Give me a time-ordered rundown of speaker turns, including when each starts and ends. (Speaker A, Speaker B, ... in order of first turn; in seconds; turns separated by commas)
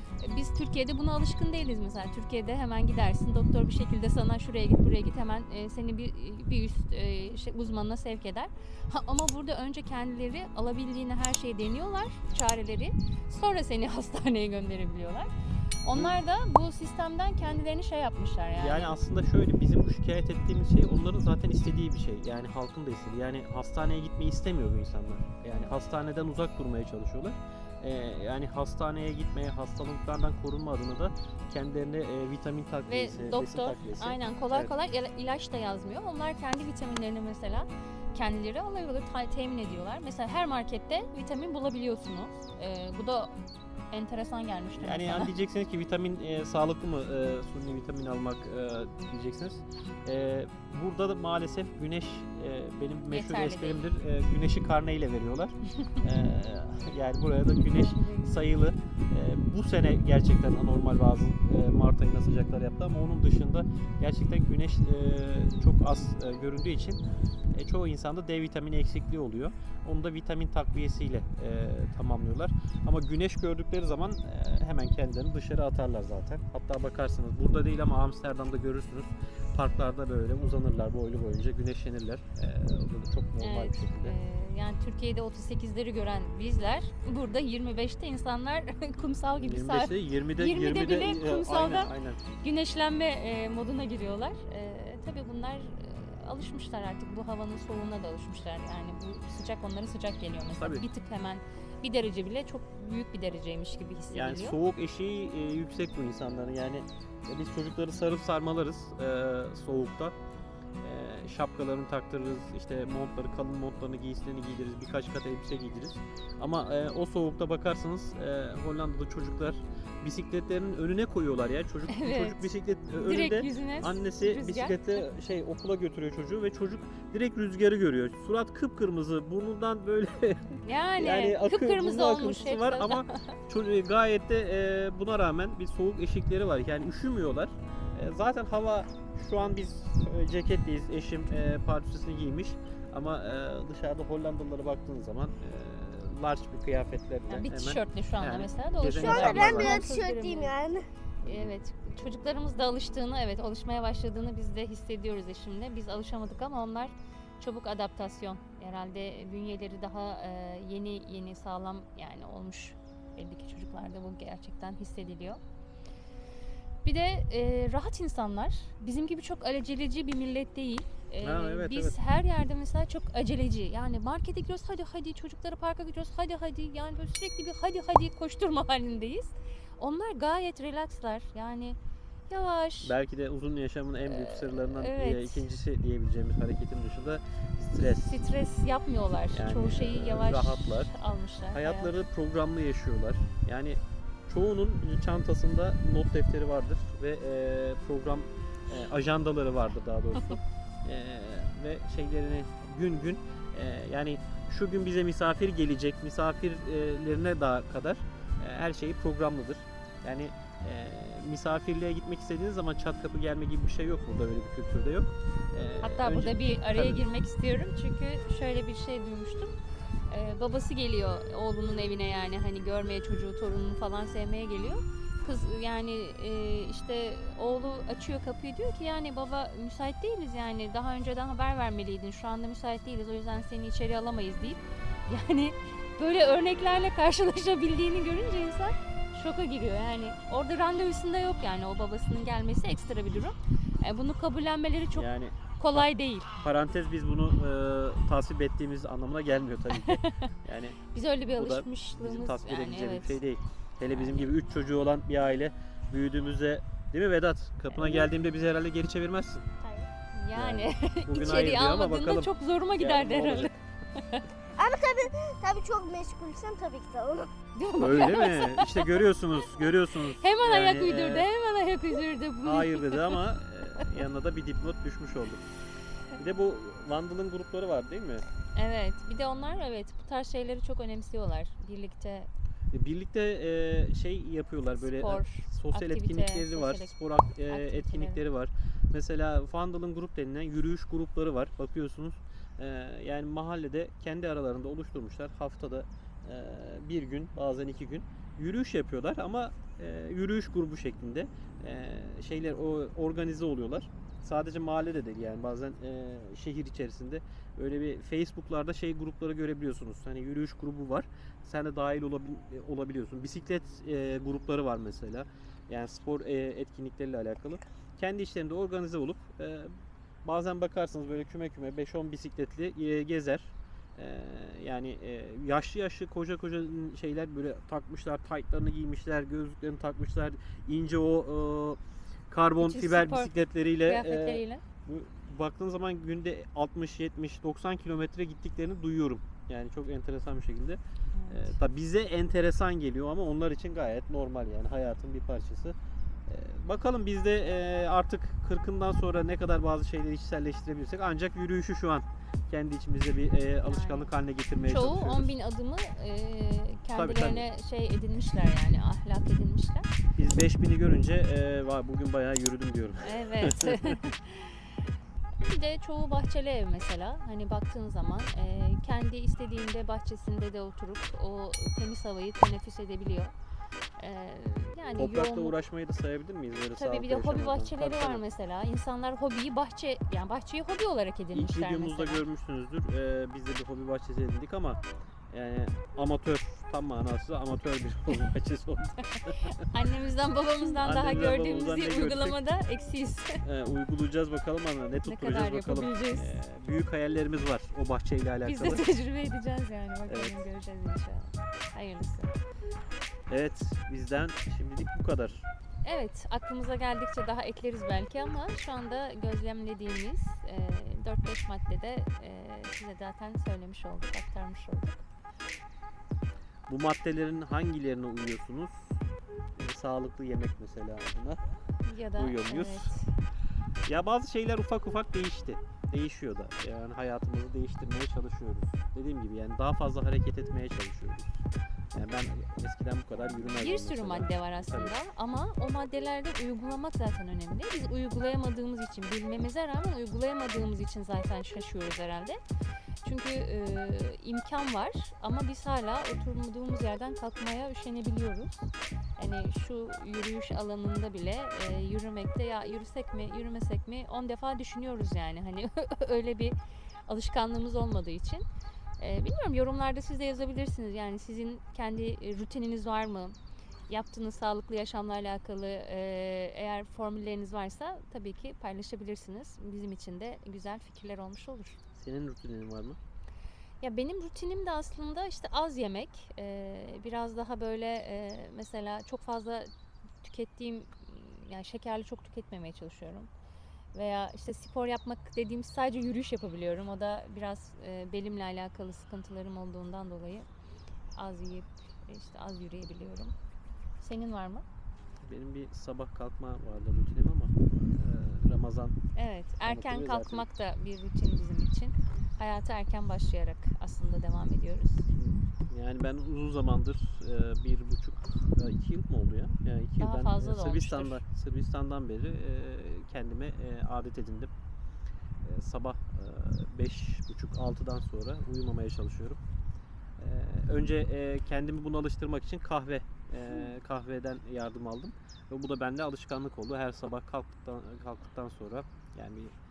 Speaker A: 0.2-18.9, Speaker B: 18.6-34.7, Speaker A: 32.9-43.3, Speaker A: 43.9-45.3, Speaker B: 44.8-67.0, Speaker A: 53.1-53.8, Speaker A: 57.7-58.4, Speaker B: 67.5-84.2, Speaker A: 83.4-104.6, Speaker B: 89.4-92.2, Speaker B: 100.5-100.8, Speaker B: 104.1-110.1, Speaker B: 110.8-149.8, Speaker A: 121.9-125.0, Speaker A: 130.6-133.3, Speaker A: 147.3-150.5, Speaker C: 148.8-150.8, Speaker B: 151.2-151.5, Speaker A: 151.2-165.4, Speaker A: 166.8-181.8, Speaker B: 171.2-172.0, Speaker A: 182.3-182.9, Speaker B: 182.8-188.2, Speaker A: 184.1-185.5, Speaker A: 187.9-191.9, Speaker B: 189.3-190.9, Speaker B: 191.5-217.0, Speaker A: 215.8-219.5, Speaker A: 220.1-246.3, Speaker B: 244.9-245.9, Speaker B: 246.4-250.8, Speaker A: 249.8-250.3, Speaker A: 250.9-253.2, Speaker B: 251.3-259.4, Speaker A: 253.9-254.3, Speaker A: 257.7-258.1, Speaker C: 259.6-259.9, Speaker A: 260.1-264.2, Speaker B: 260.3-263.6, Speaker C: 264.6-267.3, Speaker A: 267.6-269.0, Speaker B: 267.8-271.3, Speaker A: 270.2-273.2, Speaker B: 272.4-275.4, Speaker B: 276.1-278.2, Speaker A: 278.5-282.3, Speaker B: 282.7-319.7, Speaker A: 284.8-286.9, Speaker A: 287.5-288.2, Speaker B: 320.2-345.8, Speaker A: 332.6-333.3, Speaker A: 333.9-334.6, Speaker A: 341.1-341.6, Speaker B: 346.3-355.3, Speaker A: 353.6-359.9, Speaker B: 356.9-357.5, Speaker B: 360.1-364.0, Speaker A: 363.0-364.7, Speaker A: 365.4-373.3, Speaker A: 374.0-375.5, Speaker B: 375.0-378.2, Speaker A: 376.8-382.2, Speaker B: 381.3-389.5, Speaker A: 389.3-393.4, Speaker B: 390.8-392.4, Speaker B: 393.4-398.8, Speaker A: 395.0-396.4, Speaker A: 398.4-402.3, Speaker B: 400.1-400.4, Speaker B: 403.3-405.5, Speaker A: 405.8-415.0, Speaker B: 416.7-419.0, Speaker B: 419.6-421.4, Speaker A: 421.8-423.1, Speaker B: 422.1-422.9, Speaker B: 423.9-431.4, Speaker B: 431.9-434.9, Speaker A: 433.4-442.4, Speaker A: 443.0-456.6, Speaker A: 457.1-458.4, Speaker A: 459.0-463.4, Speaker A: 463.9-471.8, Speaker B: 471.9-473.0, Speaker A: 473.8-479.7, Speaker A: 480.2-483.3, Speaker A: 483.9-490.5, Speaker A: 491.1-493.3, Speaker A: 494.0-494.6, Speaker B: 495.2-498.9, Speaker A: 499.1-505.1, Speaker B: 499.6-500.5, Speaker B: 505.1-514.5, Speaker A: 510.0-511.2, Speaker B: 515.4-519.4, Speaker B: 520.2-529.5